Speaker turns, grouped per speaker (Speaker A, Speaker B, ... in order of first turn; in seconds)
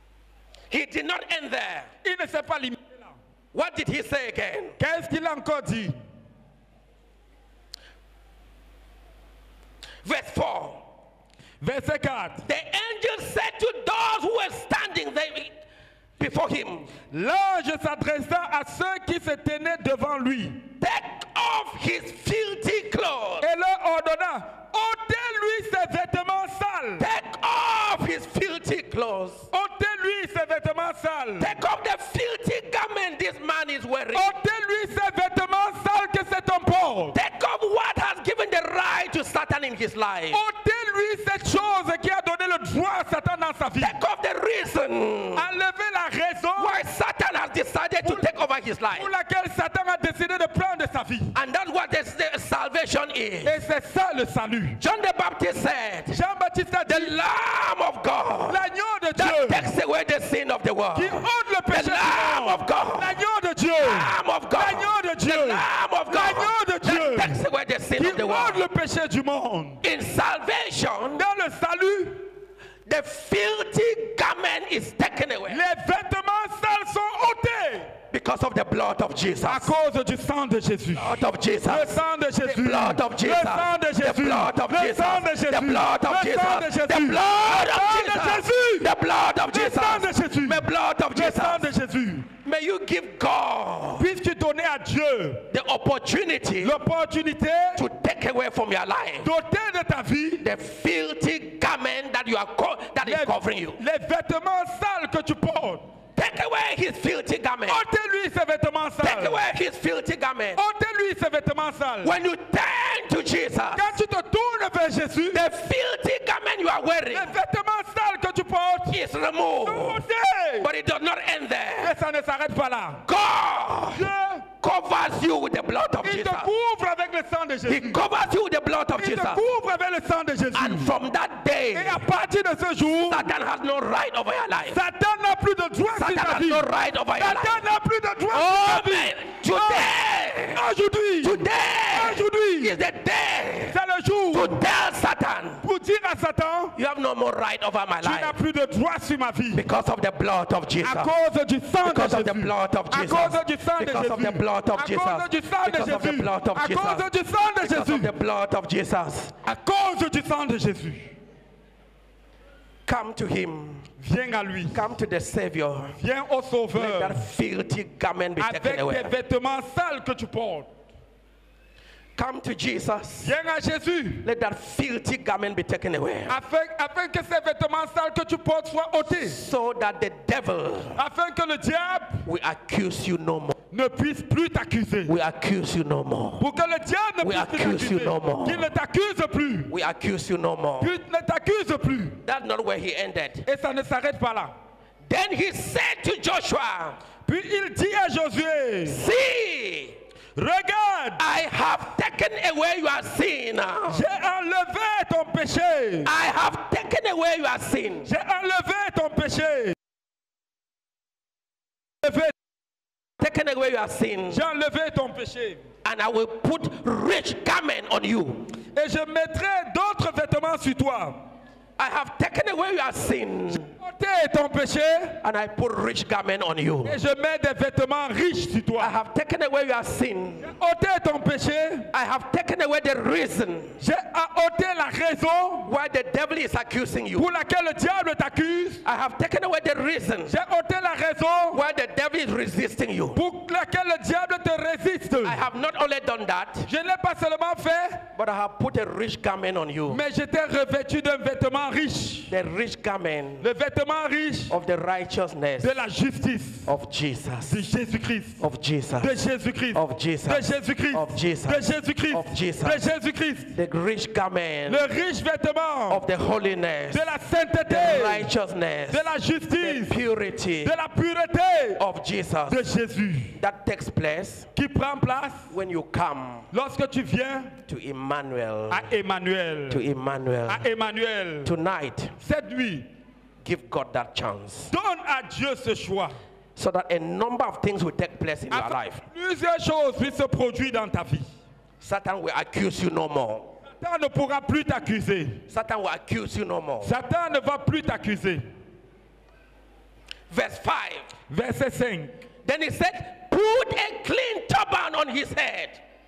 Speaker A: 0.7-1.9, 3.5-4.8, 10.0-10.8, 12.4-15.6, 16.2-16.9, 20.8-23.5, 27.0-29.5, 31.4-34.3, 37.1-40.4, 43.8-45.5, 46.6-49.1, 51.3-53.6, 54.8-56.2, 56.9-58.6, 59.2-63.1, 63.8-68.6, 69.8-71.2, 72.9-75.6, 78.1-79.7, 81.0-91.7, 92.4-94.1, 95.5-96.8, 97.8-99.3, 100.4-103.8, 106.2-107.8, 109.0-110.6, 112.0-114.0, 115.3-117.4, 118.9-120.0, 120.6-121.9, 123.0-124.0, 124.6-126.5, 127.7-129.4, 130.6-132.0, 133.1-134.8, 135.9-137.6, 138.3-140.6, 141.2-143.8, 144.3-145.6, 146.8-148.3, 149.5-151.1, 151.8-157.1, 157.6-159.4, 162.9-163.9, 164.7-166.0, 166.7-169.1, 172.2-173.3, 174.2-176.3, 179.1-181.0, 182.2-183.6, 185.1-186.4, 187.2-188.7, 189.7-190.9, 192.2-193.5, 195.1-197.0, 198.8-200.0, 201.2-204.0, 206.0-208.1, 213.2-214.4, 215.8-218.5, 221.8-223.7, 225.2-227.0, 228.8-230.5, 231.9-233.8, 235.7-237.3, 238.8-240.3, 241.5-243.2, 245.2-246.7, 248.1-250.0, 252.3-253.5, 254.5-255.7, 256.7-257.6, 258.4-259.1, 259.7-262.9, 263.5-264.9, 265.9-267.1, 267.7-270.7, 271.8-272.6, 273.4-274.5, 275.5-276.5, 277.7-278.9, 279.7-280.6, 281.4-282.1, 283.4-284.7, 286.6-289.0, 291.8-293.5, 295.5-296.9, 300.3-301.1, 302.4-305.8
Speaker B: 2.0-3.2, 4.8-6.0, 11.6-12.5, 17.1-20.6, 23.4-27.1, 29.5-31.5, 34.1-37.2, 40.3-44.0, 45.4-46.8, 48.9-51.4, 53.5-54.8, 56.1-57.1, 58.5-59.7, 61.0-67.4, 68.0-69.8, 71.2-72.3, 75.5-77.9, 79.5-88.9, 89.5-92.3, 94.0-95.5, 96.6-97.8, 99.2-100.5, 103.0-105.9, 107.7-109.4, 110.6-112.2, 113.8-115.5, 117.1-119.0, 119.7-120.7, 121.8-123.0, 124.0-124.5, 126.0-128.0, 129.0-130.9, 131.7-133.3, 134.7-139.9, 140.6-142.8, 143.7-144.6, 145.6-146.8, 148.0-149.7, 150.8-158.1, 159.5-161.2, 164.0-164.9, 166.0-167.3, 168.4-170.7, 173.2-174.3, 176.3-179.4, 181.0-182.2, 183.7-185.2, 186.4-189.7, 190.8-192.2, 193.5-194.6, 197.3-199.0, 200.4-201.2, 203.9-206.1, 208.1-209.8, 212.0-212.3, 214.3-215.7, 218.7-221.2, 223.8-225.2, 226.8-228.9, 230.4-231.9, 233.8-235.7, 237.2-238.8, 240.3-241.6, 243.2-245.4, 246.7-248.0, 249.9-252.3, 253.4-254.6, 255.6-256.7, 257.5-258.4, 259.0-263.6, 264.7-266.0, 266.9-268.3, 268.9-270.0, 270.6-271.8, 272.5-273.4, 274.6-275.5, 276.5-277.6, 278.7-279.8, 280.5-281.5, 282.2-282.9, 284.7-286.2, 288.5-291.3, 293.7-295.4, 296.8-298.5, 301.3-302.2